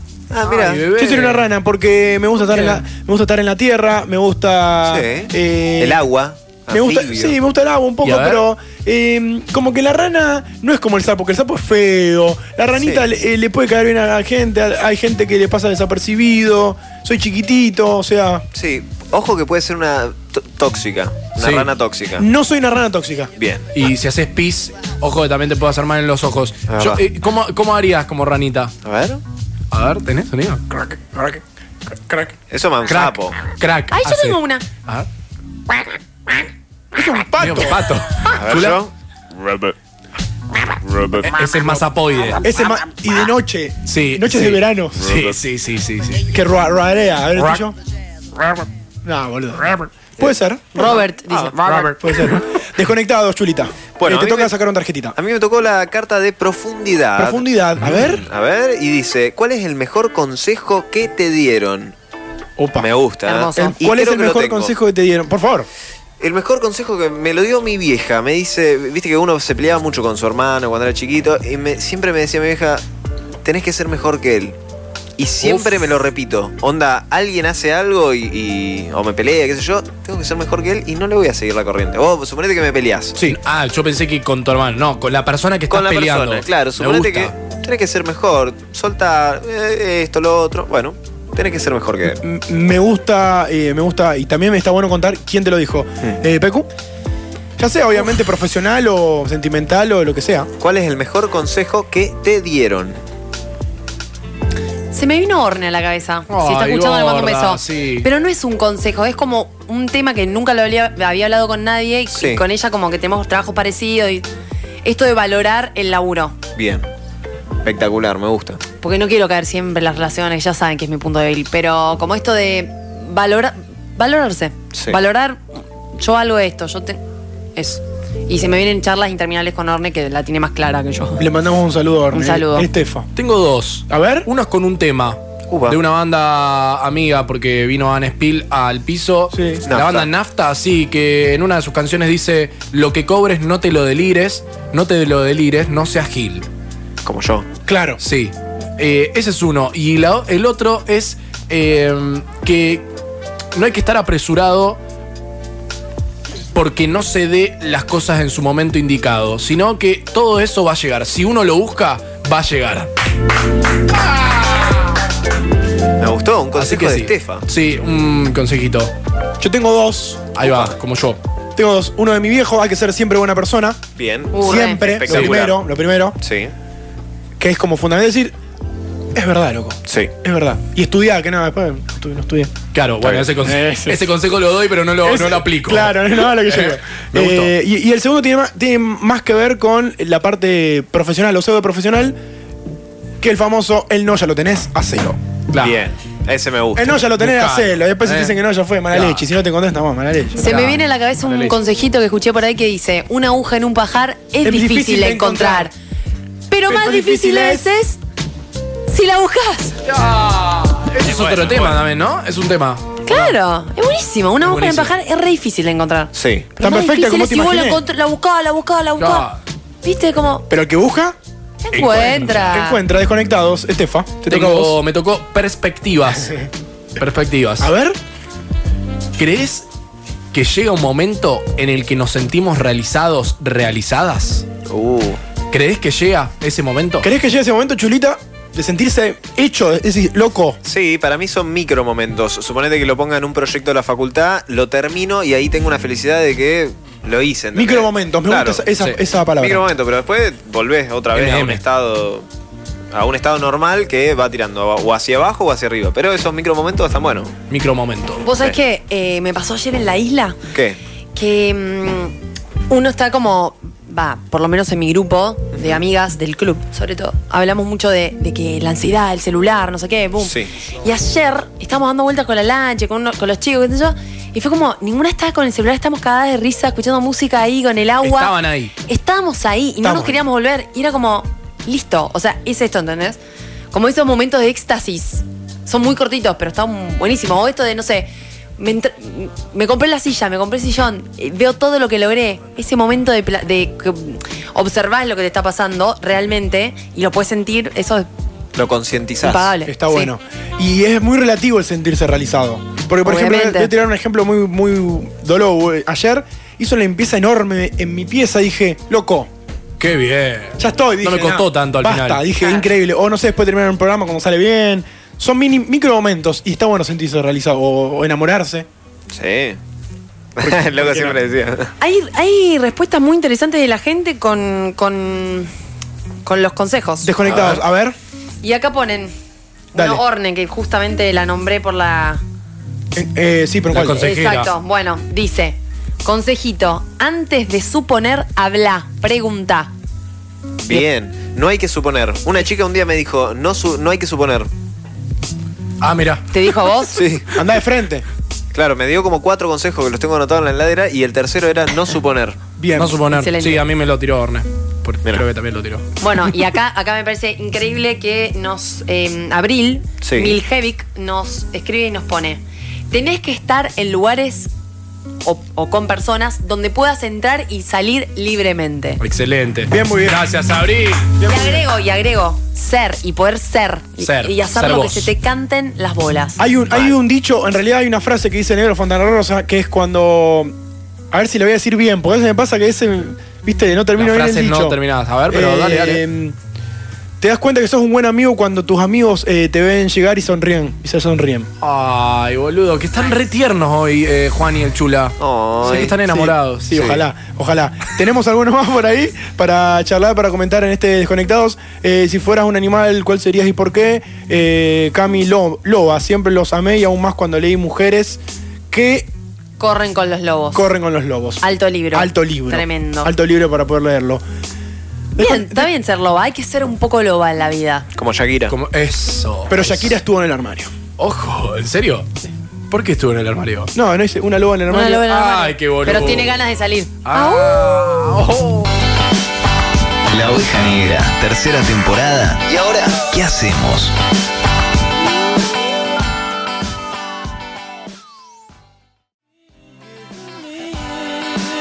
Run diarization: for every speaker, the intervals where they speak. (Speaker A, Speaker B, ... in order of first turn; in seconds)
Speaker A: 0.3-0.9, 4.9-7.3, 12.8-13.0, 18.5-22.2, 23.4-23.7, 26.7-27.0, 28.8-29.2, 32.5-33.4, 38.3-39.7, 51.3-51.6, 54.0-54.5, 55.1-61.9, 62.8-64.7, 66.2-72.8, 73.4-74.5, 75.2-83.2, 85.7-92.2, 100.6-103.0, 112.1-112.4, 116.5-116.8, 117.6-118.6, 135.5-135.8, 139.7-140.1, 147.0-147.5, 166.0-167.4, 174.0-175.6, 176.2-176.5, 179.9-180.1, 183.0-183.3, 195.6-197.0, 211.2-211.6, 216.1-216.5, 234.7-235.2, 240.6-248.6, 249.4-252.2, 252.9-257.3, 260.5-260.8, 265.6-265.8, 270.2-270.5, 298.5-299.5, 319.1-319.6, 320.4-321.7, 340.6-344.5, 346.9-347.3, 348.5-352.4, 360.0-360.3, 395.2-395.9, 417.9-418.5
Speaker B: 0.5-1.4, 2.5-2.8, 8.0-8.4, 21.4-21.7, 23.7-28.7, 29.7-30.6, 32.9-35.0, 37.4-38.8, 41.2-42.5, 43.9-46.3, 75.4-75.7, 83.2-87.3, 106.3-108.1, 133.2-146.4, 148.0-152.8, 153.5-154.8, 156.5-162.9, 166.6-168.9, 170.3-171.2, 175.1-175.3, 182.7-187.5, 195.5-195.8, 197.2-198.4, 198.9-199.2, 200.4-201.5, 209.8-212.8, 214.4-214.9, 219.0-219.4, 221.7-222.5, 224.2-226.3, 227.0-227.7, 229.2-229.7, 230.3-234.4, 235.5-237.1, 251.1-251.6, 257.5-258.2, 278.0-278.7, 309.8-312.2, 327.3-327.6, 333.7-334.5, 345.8-346.2, 352.8-355.8, 369.0-371.1, 374.0-375.1, 384.0-386.0, 391.6-397.0, 418.5-419.9, 421.0-422.1, 422.7-423.7, 425.0-426.4, 427.0-428.7
Speaker C: 0.9-6.0, 6.7-18.4, 22.2-23.3, 30.7-31.4, 32.1-32.3, 36.9-37.9, 42.4-45.2, 46.3-47.7, 49.0-51.0, 51.6-55.2, 57.2-58.2, 62.6-62.9, 63.5-65.7, 92.0-96.7, 97.6-100.5, 131.2-133.1, 133.9-134.3, 139.3-139.6, 147.7-148.0, 169.4-170.5, 171.6-173.8, 174.3-176.1, 177.4-178.3, 179.1-182.5, 183.4-184.1, 185.0-192.2, 193.2-195.2, 196.8-200.5, 204.4-205.7, 206.7-207.7, 216.6-217.8, 220.5-221.2, 222.3-224.8, 227.6-228.0, 237.0-240.6, 247.5-249.7, 279.8-280.2, 299.6-309.3, 310.6-318.6, 320.4-321.2, 327.0-327.9, 329.7-330.0, 332.9-334.1, 347.3-348.0, 352.6-353.0, 369.7-370.2, 371.2-371.6, 376.4-380.5, 381.1-384.8, 385.3-386.4, 387.2-391.5, 395.6-409.1, 410.5-414.2, 415.1-415.7, 419.5-420.7, 423.7-425.0
Speaker D: 33.9-34.6, 50.7-51.6, 63.2-63.8, 104.9-114.2, 114.8-116.3, 118.8-125.4, 126.0-127.0, 127.5-131.2, 132.1-132.7, 174.3-174.9, 200.4-205.7, 206.5-208.0, 208.9-209.8, 213.0-219.3, 219.8-220.5, 221.6-222.8, 258.2-260.4, 261.1-262.1, 262.7-278.3, 278.9-283.2, 283.7-298.1, 299.2-300.1, 303.0-303.7, 321.8-325.5, 326.2-327.1, 328.4-329.1, 329.7-332.2, 334.0-339.7, 346.3-347.0, 353.1-353.7, 356.0-364.5, 365.2-369.0, 371.2-376.4, 409.6-410.6, 411.4-413.1, 415.2-417.9, 424.7-427.8
Speaker E: 430.1-433.9